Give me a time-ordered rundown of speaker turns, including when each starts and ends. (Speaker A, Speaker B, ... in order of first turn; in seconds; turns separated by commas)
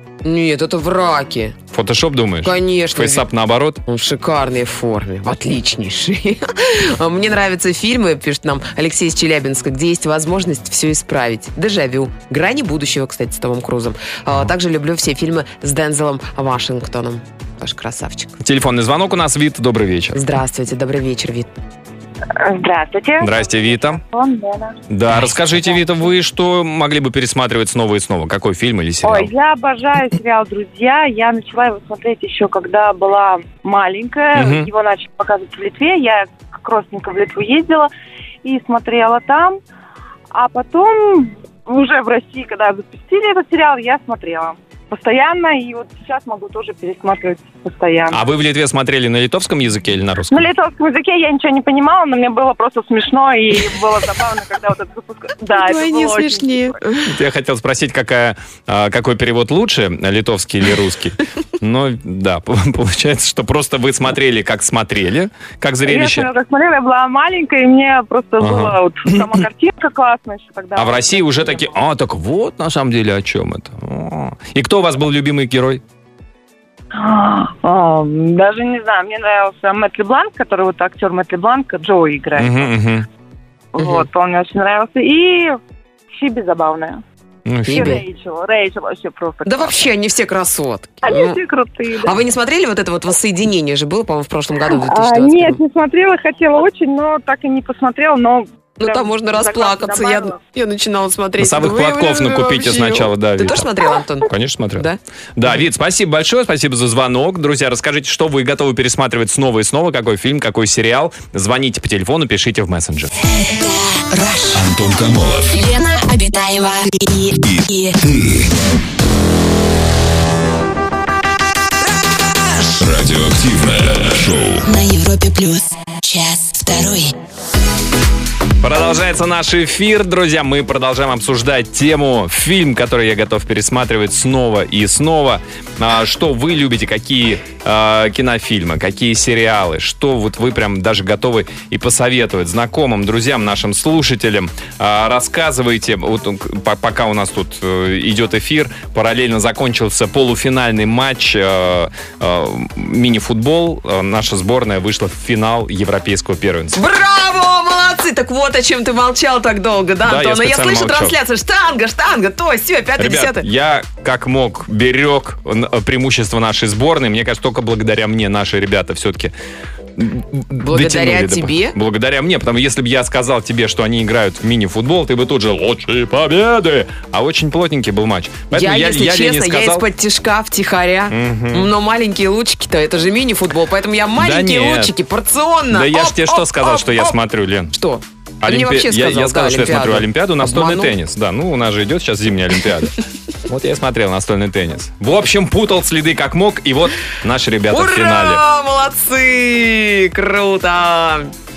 Speaker A: 0.2-1.6, Speaker B: 1.7-3.8, Speaker A: 2.4-3.2, Speaker A: 3.9-18.4, Speaker B: 18.4-20.2, Speaker A: 20.1-21.5, Speaker C: 22.3-24.8, Speaker B: 23.2-24.0, Speaker B: 24.9-29.3, Speaker C: 29.0-37.9, Speaker B: 34.3-34.7, Speaker C: 38.4-39.6, Speaker C: 40.3-48.2, Speaker B: 48.1-50.5, Speaker C: 50.3-56.8, Speaker A: 55.5-57.1, Speaker B: 57.0-66.3, Speaker C: 65.8-71.7, Speaker B: 68.4-69.4, Speaker B: 70.7-75.8, Speaker C: 76.9-82.7, Speaker B: 82.3-83.1, Speaker C: 83.7-85.6, Speaker A: 83.8-84.0, Speaker C: 86.1-87.0, Speaker B: 87.5-88.0, Speaker A: 87.7-88.0, Speaker C: 87.7-89.8, Speaker A: 89.5-91.4, Speaker C: 91.0-92.2, Speaker A: 92.0-95.6, Speaker C: 94.7-100.4, Speaker A: 98.8-105.0, Speaker B: 101.4-103.7, Speaker B: 104.2-113.1, Speaker D: 113.2-114.6, Speaker E: 114.5-115.7, Speaker D: 115.5-118.0, Speaker E: 117.4-118.5, Speaker E: 122.7-124.7, Speaker D: 124.6-127.1, Speaker B: 128.6-156.8, Speaker A: 156.7-163.4, Speaker B: 160.0-161.2, Speaker B: 163.0-169.3, Speaker B: 169.9-179.8, Speaker A: 170.6-171.8, Speaker A: 178.5-187.2, Speaker B: 181.1-181.7, Speaker B: 184.2-184.9, Speaker B: 185.7-187.7, Speaker A: 187.7-190.9, Speaker B: 188.4-198.4, Speaker A: 197.7-201.3